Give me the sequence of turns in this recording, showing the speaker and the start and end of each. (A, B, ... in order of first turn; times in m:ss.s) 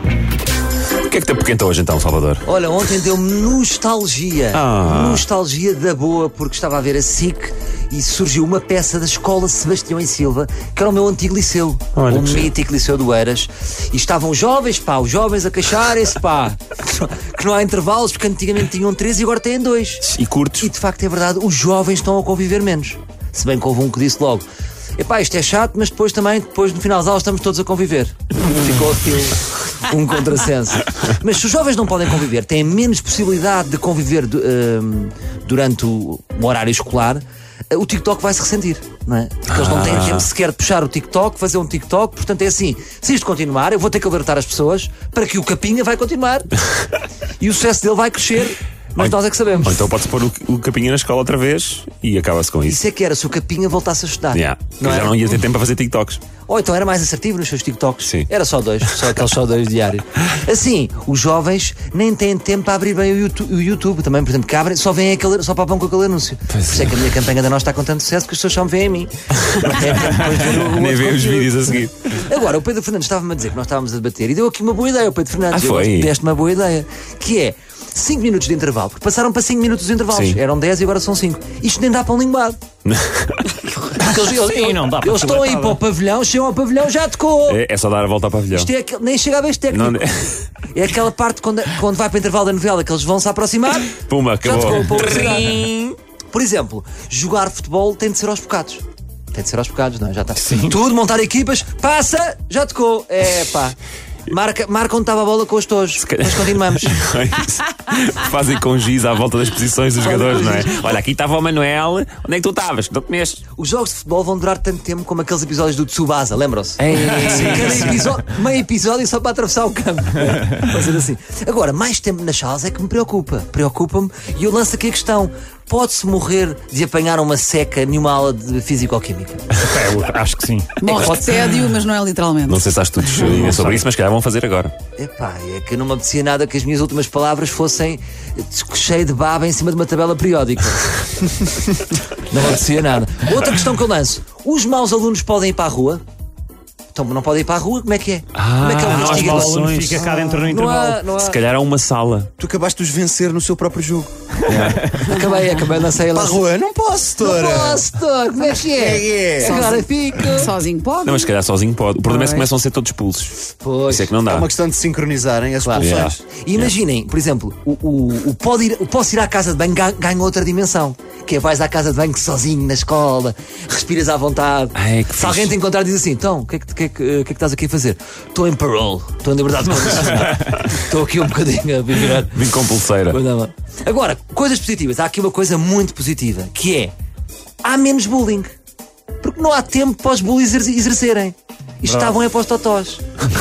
0:01.1-0:02.4 A
0:02.4-0:20.0 B
0:04.5-0:05.3 A
0:12.0-0:12.5 A
0:20.0-0:20.7 A
0:20.6-0:24.4 B
0:25.0-0:46.5 B
0:39.5-0:40.3 A
0:47.4-0:49.8 B
0:49.0-0:52.8 A
0:52.6-0:55.3 B
0:54.3-0:56.2 A
0:56.5-1:22.6 B
1:06.5-1:07.0 A
1:09.5-1:12.3 A
1:15.5-1:16.1 A
1:20.1-1:20.4 A
1:22.8-1:23.6 A
1:24.0-1:27.6 B
1:24.5-1:25.8 C
1:27.5-1:28.7 A
1:28.5-1:30.0 B
1:29.7-1:30.4 A
1:30.6-1:35.7 B
1:34.0-1:36.0 A
1:36.3-1:43.8 B
1:44.3-1:46.9 B
1:46.0-1:53.5 A
1:50.0-1:51.0 B
1:53.5-2:09.5 B
1:56.8-1:58.1 A
2:09.6-2:10.8 C
2:10.8-2:12.7 D
2:10.9-2:11.6 A
2:12.5-2:14.8 A
2:13.3-2:13.6 C
2:15.0-2:21.3 B
2:22.1-2:26.0 B
2:26.9-2:31.4 B
2:28.4-2:30.1 A
2:28.9-2:31.0 C
2:30.1-2:30.3 E
2:31.2-2:32.3 A
2:32.4-2:35.1 E
2:34.5-2:35.0 A
2:35.0-2:36.4 B
2:36.1-2:37.8 E
2:37.2-2:40.5 B
2:38.7-2:39.8 E
2:39.5-2:41.3 D
2:41.0-2:43.4 A
2:42.1-2:42.5 D
2:43.6-2:44.1 B
2:43.9-2:44.5 A
2:44.3-2:46.2 E
2:45.6-3:06.9 B
2:45.7-2:46.7 A
2:54.8-2:55.6 A
3:02.2-3:03.2 A
3:07.6-3:08.5 B
3:09.2-3:13.0 B